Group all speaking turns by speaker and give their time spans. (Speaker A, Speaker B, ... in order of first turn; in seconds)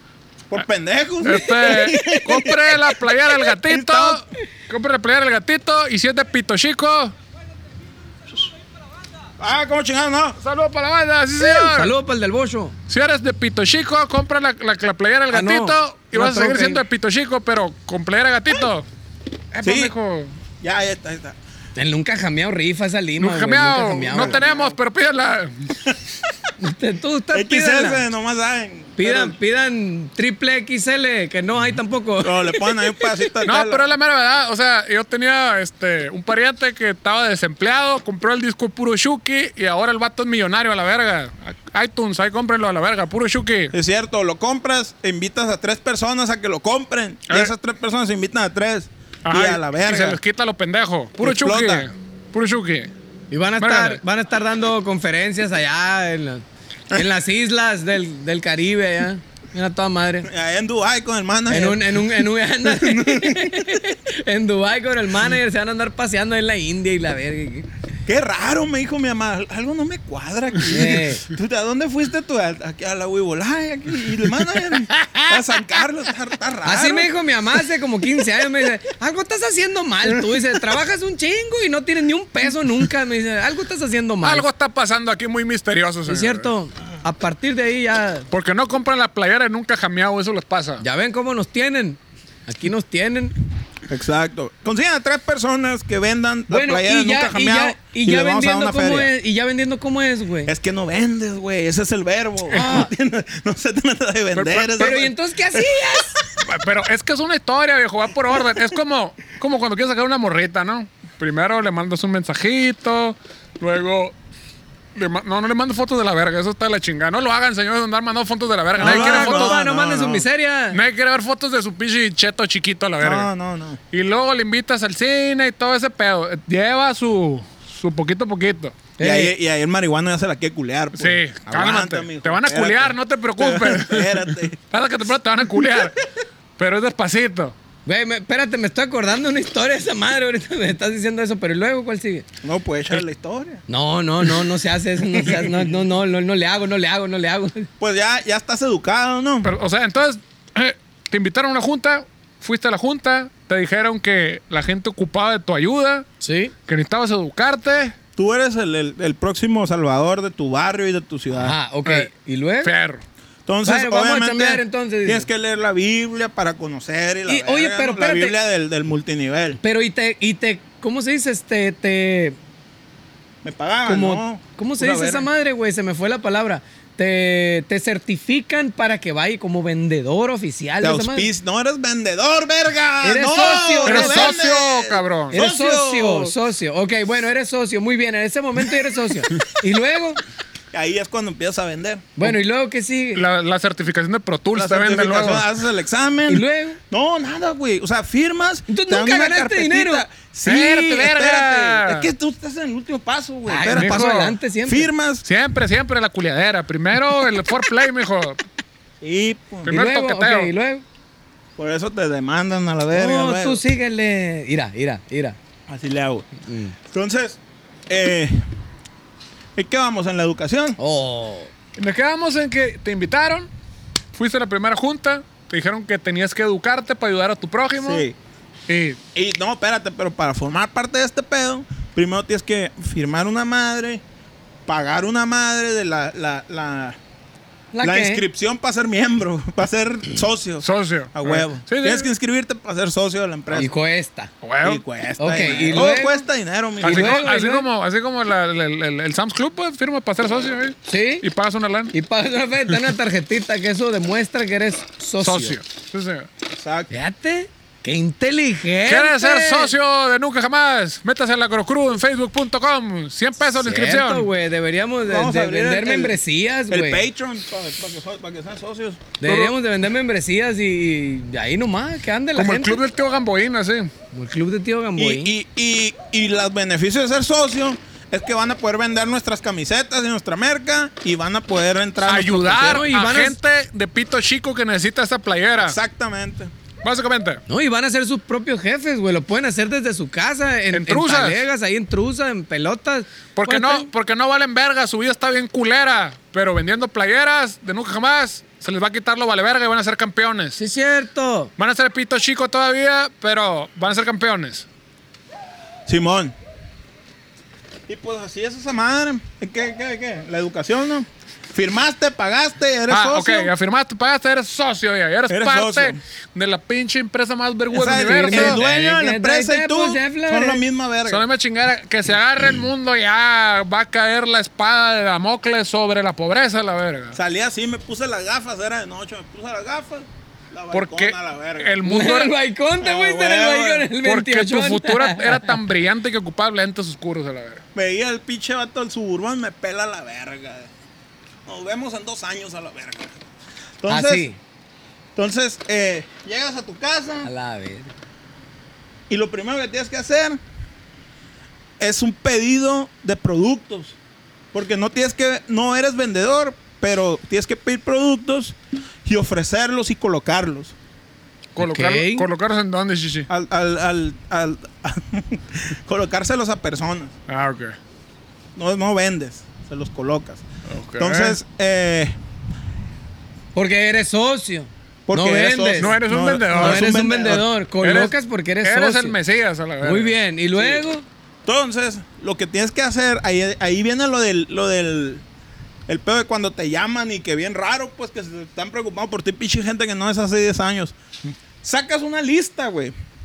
Speaker A: 0.5-4.2, 9.4-10.4, 19.6-19.9, 20.6-21.4, 24.1-24.8, 27.3-29.4, 32.2-33.9, 43.7-50.2, 51.2-51.9, 60.2-63.9, 68.1-77.1, 93.9-99.1, 100.5-106.0, 118.8-120.3, 123.0-123.8, 129.0-134.6, 142.4-143.6, 147.8-149.5, 158.2-161.6, 163.4-169.6, 173.4-175.3, 180.8-186.3, 190.7-192.1, 194.6-204.1, 204.7-205.2, 209.0-209.7, 211.6-213.6, 215.7-216.3, 216.9-218.4, 219.6-220.8, 227.8-228.2, 229.1-234.0, 234.7-237.0, 237.8-243.7, 244.6-247.3, 256.5-256.9, 265.1-266.2, 266.7-269.1, 274.9-282.9, 285.6-286.5, 305.9-306.4, 307.9-313.5, 315.3-316.0, 317.7-321.2, 327.1-331.7, 332.8-333.9, 337.8-340.7, 341.4-343.1, 343.8-344.3, 345.1-347.3, 349.1-350.4, 351.8-353.9, 354.5-360.7, 363.3-367.1, 368.6-370.4, 371.0-372.1, 375.1-377.4, 380.6-380.8, 381.4-385.2, 385.9-390.9, 391.6-392.9
Speaker B: 1.2-7.1, 10.4-11.9, 12.9-18.9, 19.5-20.3, 23.2-25.7, 33.4-43.7, 49.2-52.9, 53.6-54.0, 74.7-75.4, 84.2-86.5, 88.3-90.8, 102.5-102.8, 104.3-105.0, 106.4-114.1, 114.9-119.6, 120.7-123.3, 123.9-128.8, 130.9-136.0, 136.6-137.6, 149.4-156.1, 156.7-157.9, 162.6-163.0, 183.8-185.4, 193.1-195.5, 200.4-202.1, 203.7-204.4, 205.2-208.4, 209.7-210.5, 221.8-223.5, 224.1-228.0, 228.7-229.0, 240.6-242.1, 244.4-244.8, 246.8-251.9, 255.2-256.3, 258.9-264.3, 269.2-269.5, 272.4-273.9, 282.0-285.8, 286.8-287.4, 290.7-291.4, 293.4-300.6, 301.6-304.6, 312.9-318.6, 321.1-327.1, 330.7-332.3, 334.0-337.6, 361.6-363.3, 367.3-367.8, 370.7-371.4, 375.8-377.0, 377.8-380.1
Speaker C: 11.4-12.8, 15.3-16.8, 21.8-24.4, 26.6-28.1, 29.0-32.7, 53.3-60.3, 61.5-67.7, 70.7-71.2, 76.6-84.5, 86.1-88.3, 90.8-93.3, 96.5-100.5, 102.5-102.9, 104.8-106.1, 118.8-120.8, 129.0-129.3, 137.9-142.3, 143.7-147.7, 156.2-156.5, 161.3-162.7, 163.6-165.3, 167.3-168.3, 169.6-172.4, 173.9-181.3, 183.0-184.4, 185.3-190.2, 192.2-193.2, 196.3-196.8, 198.7-200.1, 203.5-204.9, 209.7-210.8, 212.9-215.4, 216.5-216.7, 220.8-221.5, 237.7-238.2, 243.5-244.3, 245.2-246.2, 246.8-247.7, 250.9-251.3, 251.9-255.6, 256.9-259.7, 263.4-267.1, 269.2-272.8, 274.1-275.3, 282.6-283.4, 287.5-293.9, 300.6-301.5, 317.9-320.6, 331.8-335.6, 343.9-344.4, 347.2-347.9, 361.6-362.3, 373.6-375.9, 376.5-379.1, 379.8-381.1